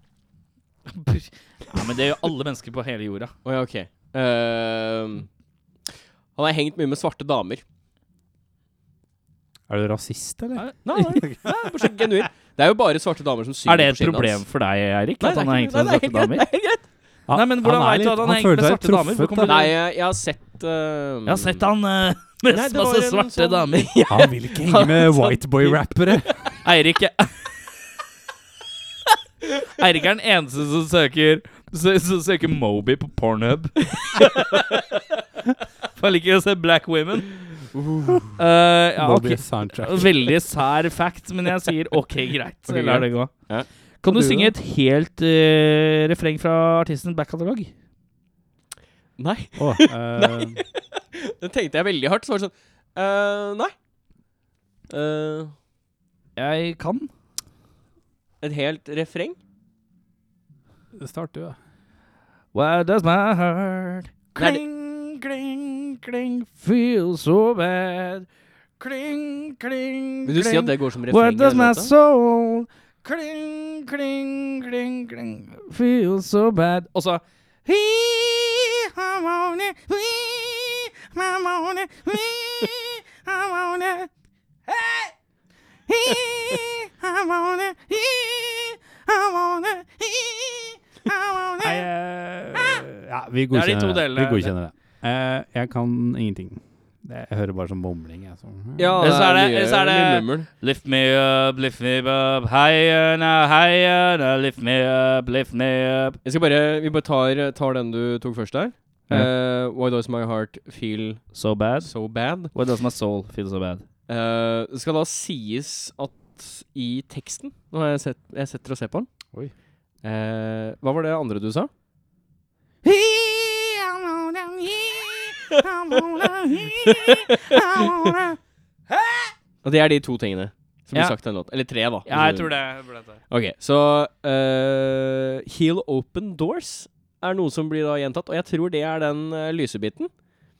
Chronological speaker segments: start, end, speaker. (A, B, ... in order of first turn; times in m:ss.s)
0:00.9-0:03.3 A
0:03.4-0:05.3 B
0:06.4-0:07.6 B
0:09.7-0:11.5 C
0:10.6-0:11.2 A
0:10.8-0:14.4 B
0:13.7-0:16.5 A
0:15.2-0:16.9 B
0:17.3-0:19.6 C
0:17.3-0:19.7 A
0:19.4-0:21.6 B
0:21.3-0:23.9 A
0:22.5-0:25.8 B
0:24.1-0:26.6 C
0:26.6-0:27.3 A
0:29.8-0:34.3 A
0:36.0-0:37.4 A
0:37.7-0:38.3 B
0:38.4-0:43.5 A
0:39.0-0:40.2 C
0:42.7-0:43.7 B
0:44.0-0:47.7 A
0:44.1-0:44.5 C
0:49.2-0:53.7 B
0:49.6-0:50.6 C
0:54.9-0:55.5 B
0:56.4-0:57.1 A
0:58.4-0:59.4 B
1:00.9-1:01.6 C
1:02.5-1:08.3 A
1:04.4-1:04.6 B
1:08.8-1:24.1 A
1:10.2-1:11.9 B
1:24.7-1:25.1 A
1:25.9-1:31.8 A
1:31.6-1:39.0 C
1:33.5-1:34.5 A
1:38.8-1:40.5 B
1:39.0-1:46.2 A
1:46.2-1:52.5 B
1:51.3-1:53.8 A
1:54.1-1:59.1 B
2:00.0-2:01.7 B
2:02.8-2:08.4 A
2:08.9-2:09.3 A
2:09.6-2:20.1 B
2:12.0-2:13.2 A